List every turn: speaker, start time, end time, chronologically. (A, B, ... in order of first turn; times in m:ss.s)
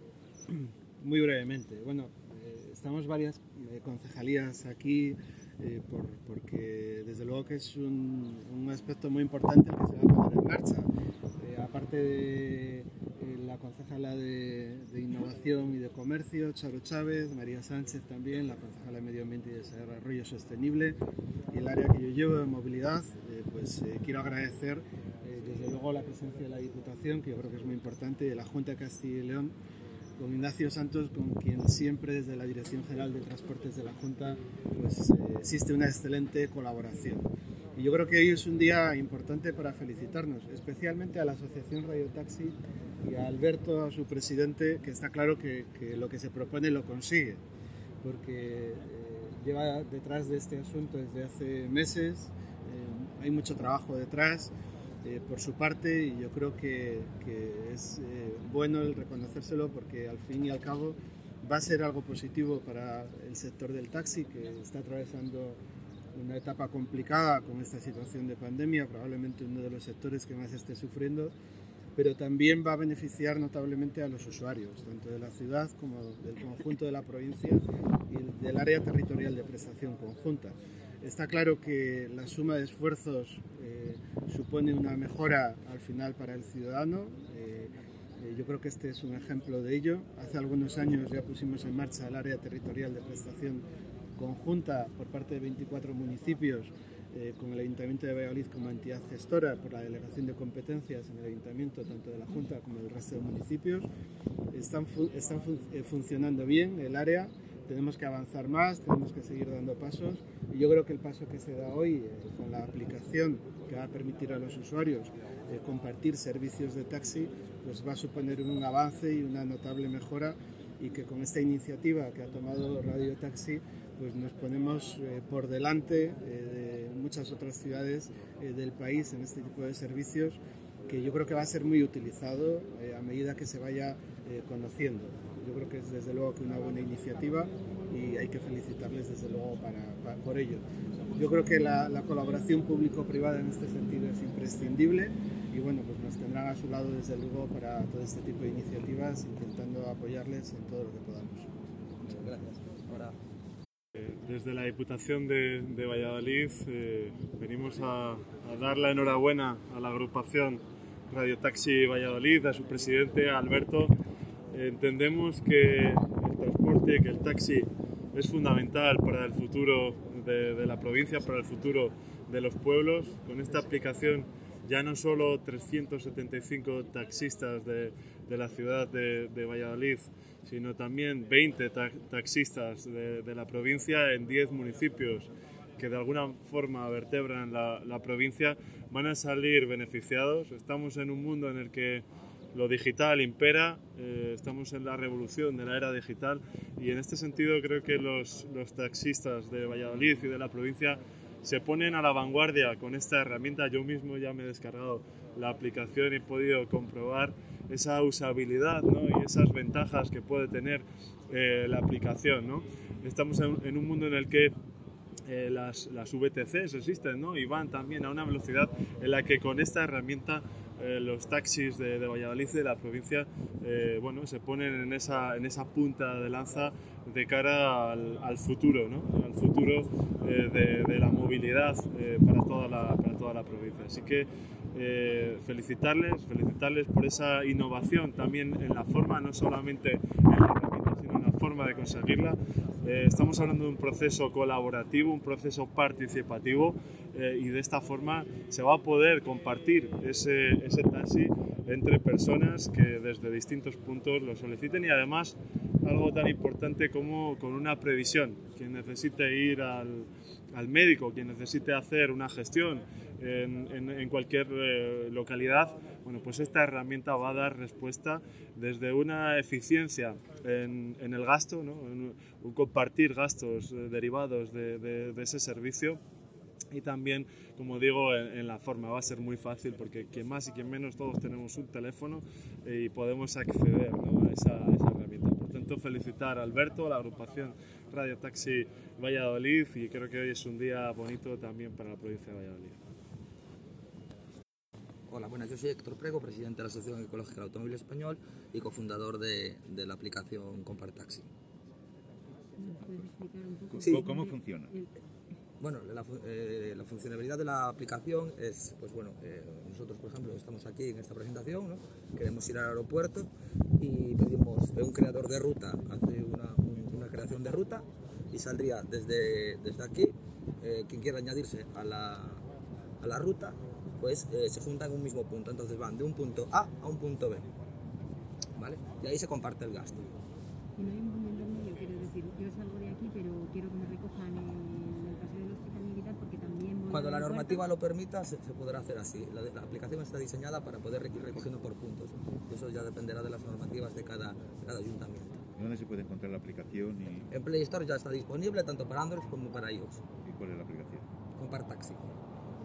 0:00.5-0:21.0 A
0:21.5-0:29.5 A
0:30.2-0:47.4 A
0:48.0-0:54.5 A
0:55.0-1:05.6 A
1:06.1-1:11.3 A
1:12.0-1:33.6 A
1:34.2-1:43.9 A
1:44.5-2:20.6 A
2:21.1-2:31.5 A
2:32.0-2:33.1 B
2:33.9-2:43.9 C
2:44.5-3:34.5 C
3:35.3-4:36.0 C
4:36.7-4:52.8 C
4:55.1-5:01.3 B
5:02.6-5:04.9 D
5:03.7-5:04.7 E
5:05.6-5:13.3 B
5:13.8-5:22.4 B
5:23.0-5:27.5 B
5:28.6-5:30.0 B
5:30.8-5:37.7 D
5:36.9-5:45.4 B
5:41.3-5:41.5 E
5:45.6-5:47.3 E
5:47.3-5:50.0 B
5:50.2-5:51.0 E
5:51.4-5:52.1 B